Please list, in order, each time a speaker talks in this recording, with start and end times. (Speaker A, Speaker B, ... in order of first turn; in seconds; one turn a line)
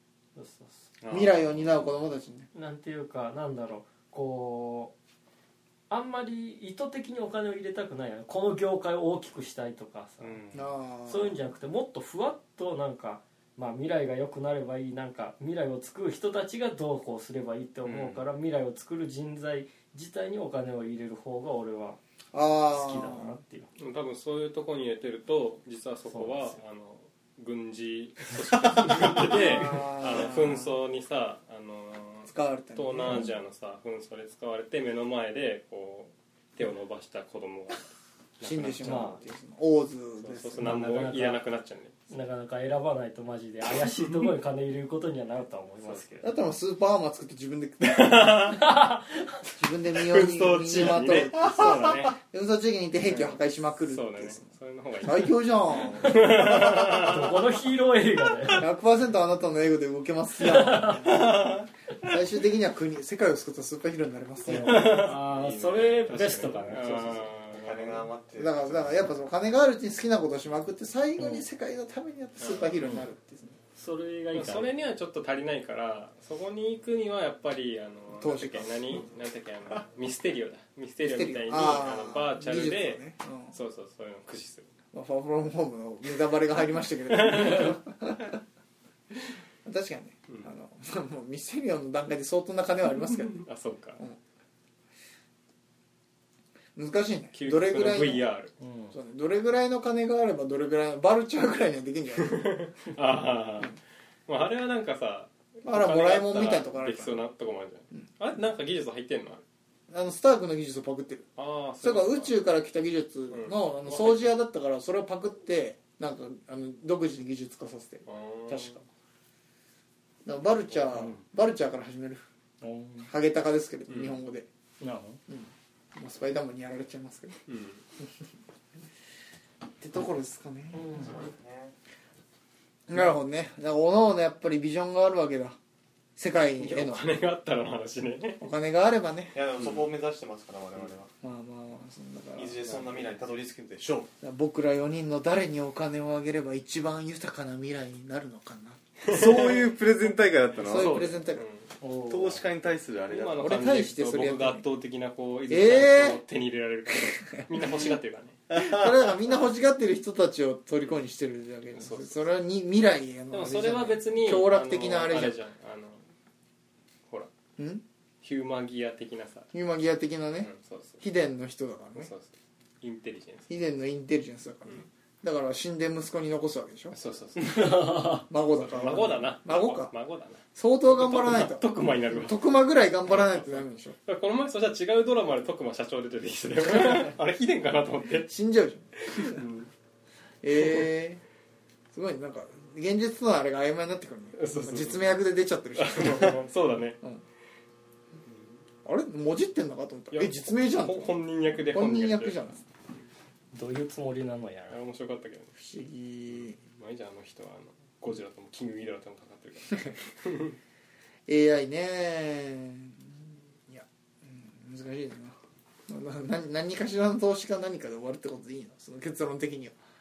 Speaker A: 0.4-0.9
Speaker B: 1.0-1.7
Speaker C: 1.1-2.5
Speaker A: 2.5-4.9
Speaker A: 5.9-10.4
Speaker B: 10.2-10.6
Speaker C: 10.5-11.4
Speaker A: 11.1-22.0
Speaker B: 17.8-18.3
Speaker C: 22.3-23.4
Speaker A: 22.7-23.7
Speaker D: 23.8-37.9
Speaker A: 26.1-26.6
Speaker A: 29.0-30.5
Speaker C: 29.2-30.7
Speaker C: 32.3-33.3
Speaker D: 38.4-39.1
Speaker C: 38.4-41.1
Speaker A: 38.8-39.2
Speaker D: 40.2-42.0
Speaker A: 40.6-41.4
Speaker A: 42.1-46.3
Speaker C: 46.2-48.6
Speaker D: 47.9-48.6
Speaker A: 48.5-49.4
Speaker C: 49.6-54.5
Speaker D: 50.1-52.2
Speaker D: 53.1-57.3
Speaker C: 55.0-56.4
Speaker A: 56.4-58.7
Speaker C: 58.5-65.2
Speaker A: 60.4-61.1
Speaker D: 61.1-61.6
Speaker A: 64.5-67.3
Speaker D: 64.5-68.1
Speaker B: 65.0-69.1
Speaker C: 68.4-73.6
Speaker D: 72.4-72.8
Speaker A: 72.8-73.1
Speaker A: 73.8-74.7
Speaker D: 74.3-84.7
Speaker C: 78.2-79.1
Speaker C: 81.0-83.5
Speaker C: 84.9-88.4
Speaker D: 87.2-87.7
Speaker C: 89.7-93.5
Speaker D: 93.3-94.0
Speaker C: 96.8-98.3
Speaker D: 97.3-98.5
Speaker A: 98.6-99.0
Speaker C: 98.9-102.6
Speaker D: 102.2-109.4
Speaker C: 105.6-107.2
Speaker C: 109.9-111.3
Speaker D: 111.4-112.3
Speaker C: 111.8-118.8
Speaker D: 113.3-114.3
Speaker D: 118.1-118.8
Speaker C: 120.2-122.2
Speaker A: 121.0-121.2
Speaker A: 122.6-123.1
Speaker C: 123.0-124.5
Speaker D: 123.9-124.2
Speaker A: 124.8-125.2
Speaker C: 125.3-127.4
Speaker D: 127.5-127.8
Speaker C: 129.8-131.1
Speaker A: 130.8-131.2
Speaker B: 130.9-131.8
Speaker C: 132.9-135.6
Speaker C: 136.2-137.1
Speaker D: 136.6-138.4
Speaker C: 138.4-139.4
Speaker B: 139.3-141.1
Speaker C: 141.2-143.1
Speaker B: 142.4-144.1
Speaker C: 144.2-149.0
Speaker B: 149.1-151.1
Speaker C: 150.6-151.4
Speaker D: 150.6-151.7
Speaker A: 151.8-152.4
Speaker B: 151.9-153.5
Speaker D: 153.1-158.4
Speaker C: 153.4-154.7
Speaker C: 155.5-156.2
Speaker C: 157.4-157.9
Speaker B: 158.5-159.0
Speaker C: 158.5-165.4
Speaker D: 161.7-162.2
Speaker D: 163.3-166.0
Speaker C: 167.6-167.8
Speaker D: 168.2-169.5
Speaker C: 169.5-172.1
Speaker D: 170.4-171.0
Speaker D: 172.0-173.5
Speaker C: 173.5-177.0
Speaker D: 176.9-182.4
Speaker A: 177.4-178.3
Speaker C: 178.3-179.9
Speaker C: 180.6-184.0
Speaker D: 183.1-188.3
Speaker C: 188.2-189.4
Speaker D: 189.0-189.7
Speaker C: 190.4-191.2
Speaker C: 191.9-196.5
Speaker D: 194.3-195.2
Speaker D: 195.8-197.0
Speaker C: 198.8-202.7
Speaker D: 200.1-202.4
Speaker A: 203.5-204.8
Speaker D: 204.7-205.6
Speaker C: 205.6-206.6
Speaker D: 206.3-210.6
Speaker C: 211.3-215.4
Speaker C: 215.9-219.7